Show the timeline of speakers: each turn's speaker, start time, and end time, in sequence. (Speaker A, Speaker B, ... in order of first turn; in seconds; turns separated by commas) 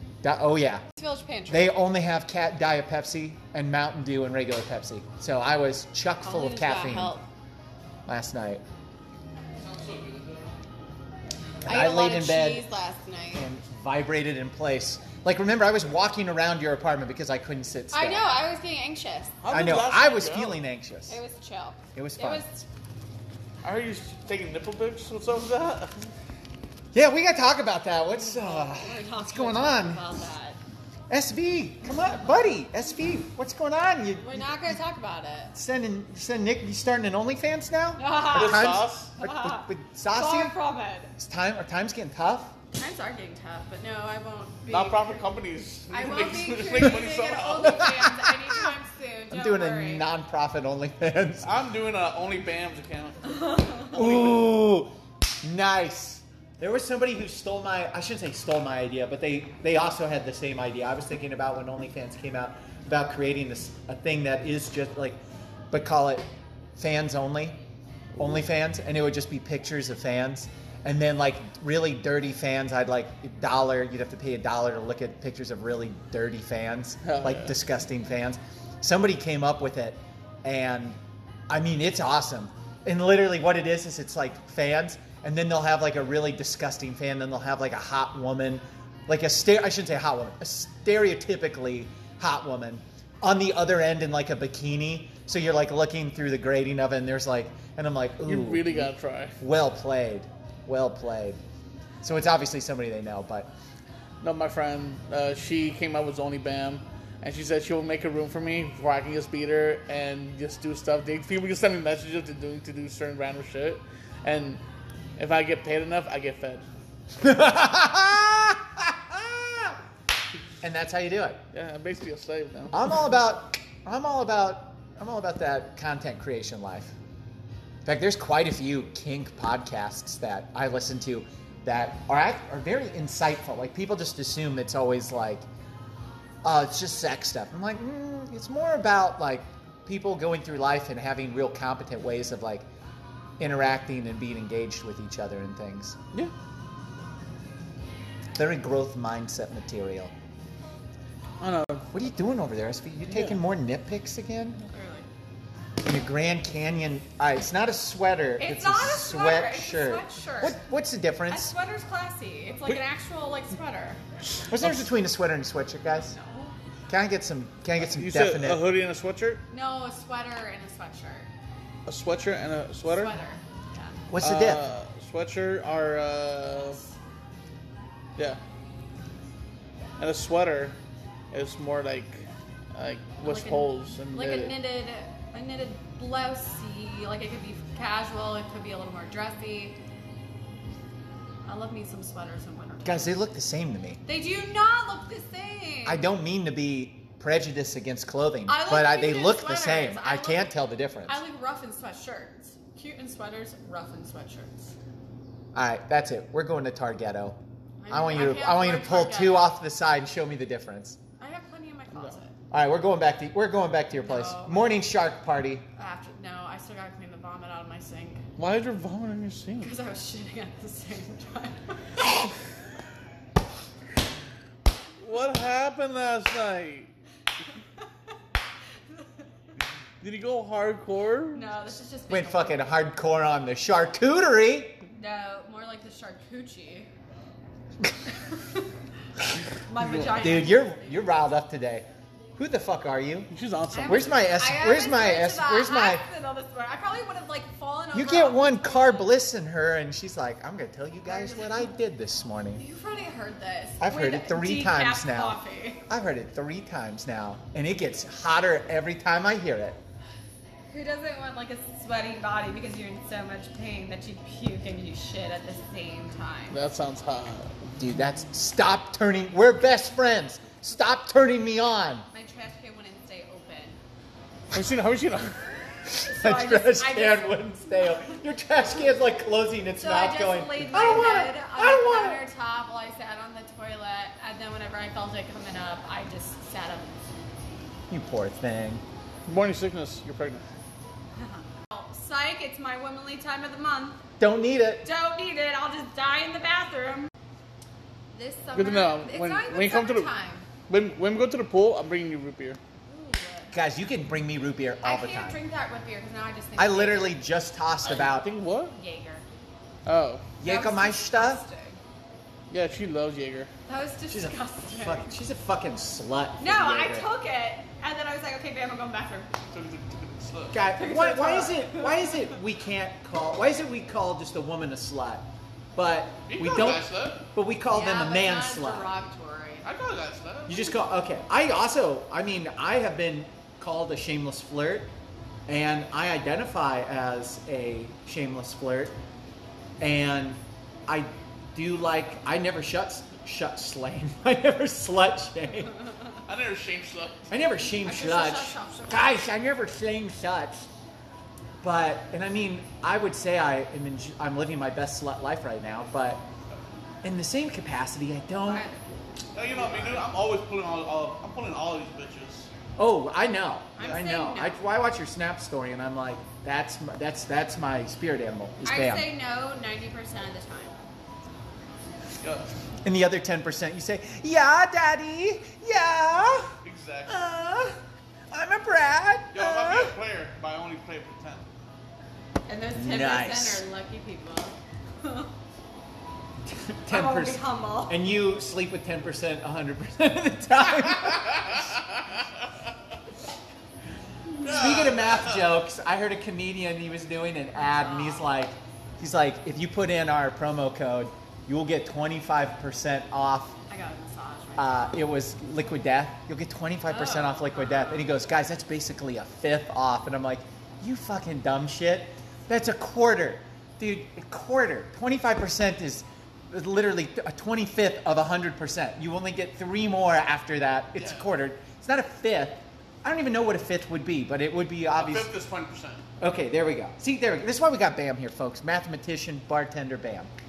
Speaker A: 0.2-0.8, Speaker B: 1.0-1.8, Speaker A: 1.5-7.2, Speaker B: 6.2-7.3, Speaker A: 8.1-8.6, Speaker C: 9.6-10.5, Speaker A: 11.6-12.7, Speaker B: 11.7-13.5, Speaker A: 13.3-18.3, Speaker B: 17.9-19.4, Speaker C: 19.4-20.6, Speaker A: 19.5-21.2, Speaker B: 21.1-22.7, Speaker A: 21.9-22.4, Speaker C: 23.6-26.0, Speaker A: 26.9-30.0, Speaker B: 28.1-30.6, Speaker A: 31.1-34.7, Speaker B: 34.2-35.5, Speaker A: 35.5-40.5, Speaker B: 38.0-41.1, Speaker C: 38.3-39.1, Speaker A: 41.2-42.5, Speaker B: 42.8-45.2, Speaker C: 44.7-47.9, Speaker B: 45.9-50.1, Speaker A: 47.6-48.7, Speaker A: 49.3-51.5, Speaker C: 51.4-54.6, Speaker B: 53.2-53.9, Speaker A: 53.9-65.2, Speaker A: 65.7-67.6, Speaker A: 68.2-101.4, Speaker C: 77.0-77.5, Speaker C: 98.3-99.4, Speaker A: 102.0-103.5, Speaker C: 104.2-114.6, Speaker C: 115.2-116.7, Speaker A: 117.2-119.8, Speaker A: 120.6-121.4, Speaker C: 121.5-122.8, Speaker A: 122.7-127.0, Speaker A: 127.8-135.4, Speaker A: 136.4-142.7, Speaker A: 143.4-146.0, Speaker A: 148.4-150.1, Speaker C: 151.4-151.9, Speaker A: 151.9-154.6, Speaker C: 153.1-153.4, Speaker B: 154.7-155.1, Speaker A: 155.8-161.6, Speaker B: 158.4-160.6, Speaker B: 161.3-164.0, Speaker A: 164.5-166.2, Speaker C: 164.6-164.8, Speaker B: 165.9-166.6, Speaker A: 166.9-168.6, Speaker C: 167.8-169.4, Speaker B: 169.5-171.3, Speaker C: 171.9-173.1, Speaker B: 172.8-174.0, Speaker A: 174.1-174.6, Speaker C: 174.2-176.8, Speaker B: 176.6-176.9, Speaker C: 180.0-180.8, Speaker C: 181.3-184.6, Speaker B: 183.2-189.8, Speaker B: 191.5-193.2, Speaker A: 192.8-194.0, Speaker B: 194.1-196.0, Speaker A: 195.9-201.2, Speaker B: 198.5-200.5, Speaker B: 201.1-204.8, Speaker A: 205.6-207.4, Speaker B: 207.8-209.5, Speaker A: 207.9-211.0, Speaker B: 211.2-212.3, Speaker A: 212.5-215.7, Speaker B: 213.9-214.7, Speaker B: 215.8-218.2, Speaker C: 218.4-219.7, Speaker B: 219.6-221.8, Speaker C: 225.0-226.9, Speaker C: 230.0-231.5, Speaker B: 231.3-232.6, Speaker A: 232.1-234.8, Speaker B: 234.9-236.9, Speaker B: 239.6-241.0, Speaker C: 239.8-240.2, Speaker A: 240.2-243.3, Speaker C: 243.3-244.2, Speaker B: 243.7-249.1, Speaker A: 243.9-246.0, Speaker A: 247.9-252.6, Speaker B: 251.1-251.7, Speaker B: 252.6-255.8, Speaker A: 253.8-259.8, Speaker B: 260.7-266.6, Speaker C: 266.5-267.7, Speaker A: 267.8-272.1, Speaker B: 272.1-273.8, Speaker C: 274.5-275.5, Speaker A: 275.9-282.2, Speaker B: 276.0-277.6, Speaker B: 279.8-286.9, Speaker A: 287.9-288.8, Speaker C: 289.3-290.4, Speaker B: 291.2-294.0, Speaker A: 294.2-294.9, Speaker B: 294.8-297.1, Speaker B: 298.1-300.5, Speaker C: 298.6-300.1, Speaker C: 300.7-302.6, Speaker B: 302.9-303.5, Speaker A: 303.5-305.4, Speaker B: 304.8-307.2, Speaker A: 306.6-308.3, Speaker C: 307.9-308.8, Speaker B: 308.8-309.2, Speaker C: 309.9-310.3, Speaker A: 310.4-311.4, Speaker B: 310.4-311.8, Speaker C: 312.5-313.5, Speaker B: 313.7-315.1, Speaker A: 314.1-317.1, Speaker B: 316.4-319.3, Speaker C: 319.5-320.6, Speaker A: 320.5-328.9, Speaker B: 320.7-322.3, Speaker C: 326.3-327.3, Speaker B: 327.7-329.7, Speaker C: 329.6-330.8, Speaker A: 330.5-334.9, Speaker A: 335.5-338.9, Speaker A: 339.8-345.8, Speaker C: 346.2-347.3, Speaker A: 347.3-350.7, Speaker B: 347.7-349.2, Speaker A: 351.6-356.3, Speaker A: 357.0-358.6, Speaker B: 358.5-358.9, Speaker C: 359.4-362.5, Speaker B: 359.6-360.0, Speaker A: 362.8-369.1, Speaker B: 363.8-364.6, Speaker B: 368.6-370.8, Speaker C: 372.2-372.5, Speaker A: 372.8-376.5, Speaker C: 376.6-377.3, Speaker A: 377.1-377.8, Speaker A: 378.3-379.9, Speaker C: 379.3-381.5, Speaker B: 382.5-385.3, Speaker A: 382.8-383.6, Speaker A: 386.5-391.7, Speaker B: 386.9-388.0, Speaker C: 394.4-395.5, Speaker A: 394.4-403.6, Speaker B: 397.5-398.3, Speaker B: 403.7-405.0, Speaker A: 404.6-425.3, Speaker B: 406.9-408.1, Speaker C: 421.0-421.3, Speaker C: 424.9-426.1, Speaker A: 426.2-430.3